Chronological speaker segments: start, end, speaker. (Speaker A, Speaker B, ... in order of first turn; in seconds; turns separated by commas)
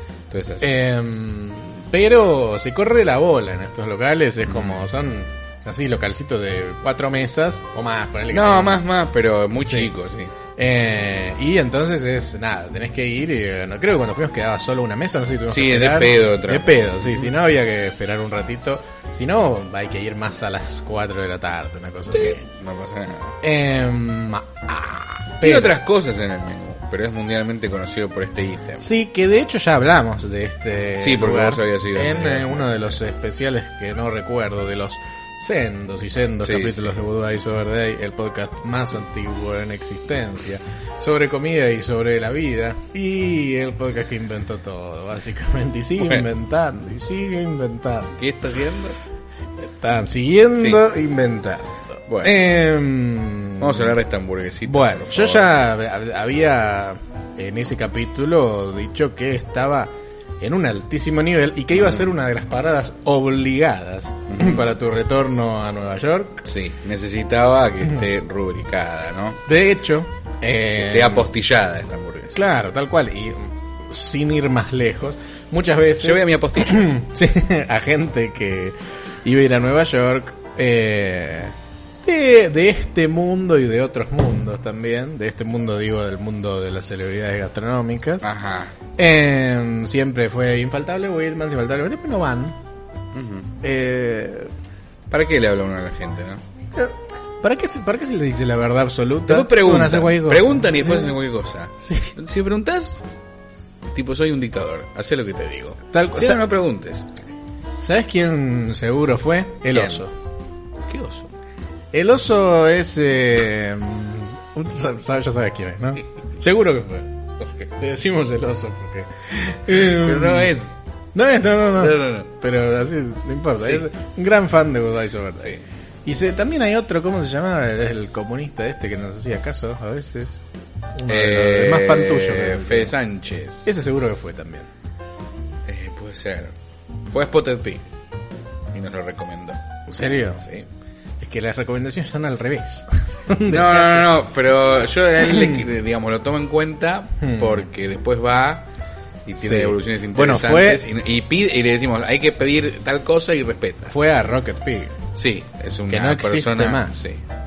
Speaker A: 0.3-0.7, Speaker B: 0.6-8.8, Speaker A: 4.5-4.8, Speaker A: 8.3-10.3, Speaker B: 9.6-9.9, Speaker B: 10.6-22.4, Speaker A: 15.5-17.3, Speaker A: 22.1-23.4, Speaker B: 23.4-25.8, Speaker A: 25.4-28.9, Speaker B: 28.8-48.2, Speaker A: 31.0-33.0, Speaker A: 36.4-37.0, Speaker A: 46.0-46.2, Speaker A: 48.1-49.0, Speaker B: 49.6-54.0, Speaker A: 50.5-50.8, Speaker A: 52.1-52.4, Speaker A: 53.6-55.5, Speaker B: 54.6-66.4, Speaker A: 61.8-62.1, Speaker A: 64.3-64.6, Speaker A: 66.4-69.4, Speaker B: 69.5-71.3, Speaker A: 70.7-72.4, Speaker B: 72.3-88.2, Speaker A: 76.0-76.9, Speaker A: 88.2-88.7, Speaker B: 89.0-92.6, Speaker A: 93.1-93.5, Speaker B: 93.6-94.5, Speaker A: 95.1-96.4, Speaker B: 96.7-101.2, Speaker A: 99.3-103.0, Speaker B: 101.8-102.1, Speaker A: 103.9-107.1, Speaker B: 105.9-106.4, Speaker B: 107.8-110.1, Speaker A: 109.7-110.0, Speaker A: 110.8-111.3, Speaker B: 111.9-117.1, Speaker A: 117.4-117.7, Speaker B: 117.7-120.5, Speaker A: 119.7-120.8, Speaker B: 121.1-130.4, Speaker A: 121.7-122.3, Speaker A: 123.6-123.8, Speaker B: 130.9-132.9, Speaker A: 131.1-133.8, Speaker B: 133.6-134.7, Speaker A: 135.7-136.5, Speaker A: 137.1-137.8, Speaker A: 138.7-140.7, Speaker B: 139.9-140.4, Speaker B: 141.2-144.2, Speaker A: 143.5-148.7, Speaker B: 145.2-145.6, Speaker B: 147.2-147.6, Speaker A: 149.2-153.9, Speaker B: 149.4-150.8, Speaker B: 153.9-155.0, Speaker A: 155.1-157.2, Speaker B: 155.9-157.1